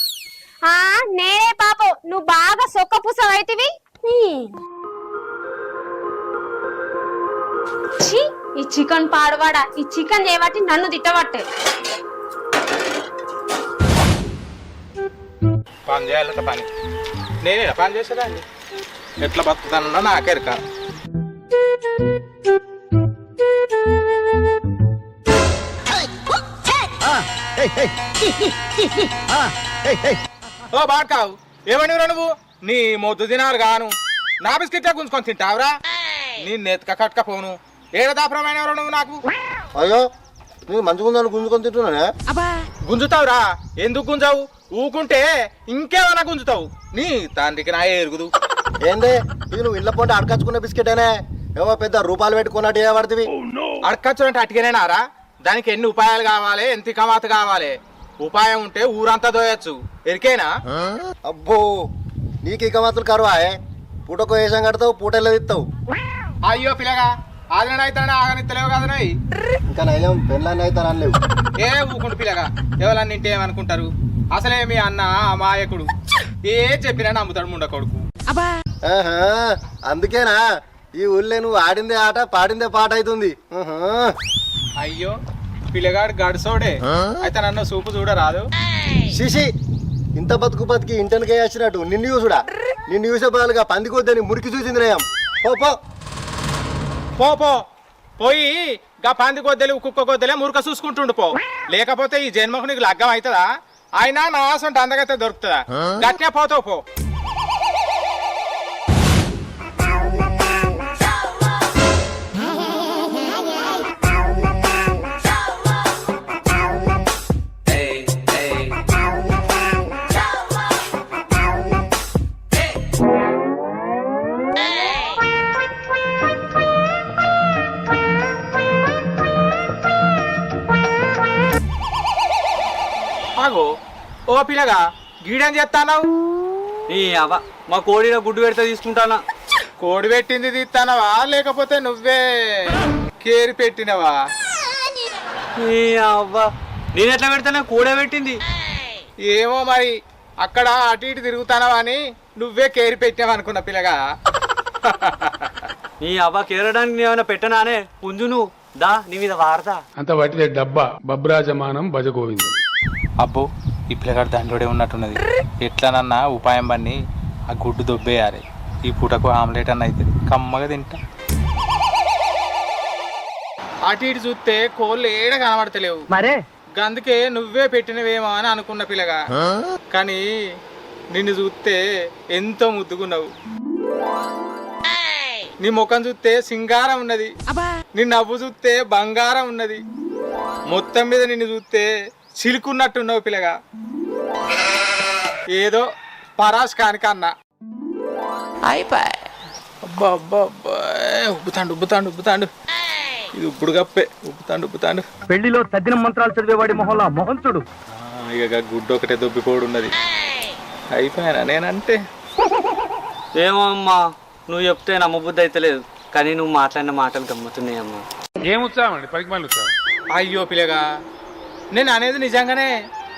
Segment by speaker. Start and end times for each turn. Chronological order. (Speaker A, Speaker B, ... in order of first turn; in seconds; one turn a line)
Speaker A: 0.7-4.5
Speaker A: 8.0-11.4
Speaker B: 15.9-16.7
Speaker B: 17.4-18.4
Speaker B: 19.2-20.6
Speaker B: 30.7-35.7
Speaker B: 36.4-39.2
Speaker C: 39.8-40.0
Speaker C: 40.7-42.0
Speaker B: 42.9-48.3
Speaker C: 48.8-51.1
Speaker C: 51.6-53.3
Speaker B: 53.9-60.5
Speaker C: 61.3-61.6
Speaker C: 62.4-63.5
Speaker C: 64.1-65.6
Speaker B: 66.5-69.1
Speaker C: 69.7-71.2
Speaker B: 71.6-75.9
Speaker B: 76.5-78.0
Speaker C: 78.9-80.4
Speaker C: 81.0-84.1
Speaker B: 84.8-85.1
Speaker B: 85.7-88.4
Speaker C: 89.1-89.5
Speaker C: 90.2-95.7
Speaker B: 97.2-97.5
Speaker B: 98.2-103.4
Speaker B: 104.0-106.8
Speaker B: 117.8-118.3
Speaker B: 133.4-133.7
Speaker B: 134.3-136.0
Speaker D: 136.9-139.2
Speaker B: 139.8-144.2
Speaker D: 145.6-148.3
Speaker B: 149.3-154.0
Speaker B: 154.8-155.5
Speaker D: 156.0-159.8
Speaker E: 160.0-162.5
Speaker B: 163.2-167.0
Speaker B: 167.5-171.0
Speaker B: 173.8-176.0
Speaker F: 176.1-176.4
Speaker B: 176.8-179.2
Speaker B: 179.9-180.2
Speaker B: 181.1-181.8
Speaker B: 182.3-183.3
Speaker B: 185.6-187.3
Speaker B: 187.9-189.8
Speaker B: 190.7-191.9
Speaker B: 192.4-193.5
Speaker B: 195.6-195.8
Speaker B: 196.4-197.3
Speaker B: 199.8-202.5
Speaker B: 203.4-205.0
Speaker F: 205.3-207.6
Speaker B: 207.9-209.9
Speaker B: 210.9-212.0
Speaker D: 213.4-218.0
Speaker E: 218.4-219.7
Speaker B: 220.1-220.8
Speaker B: 221.7-222.7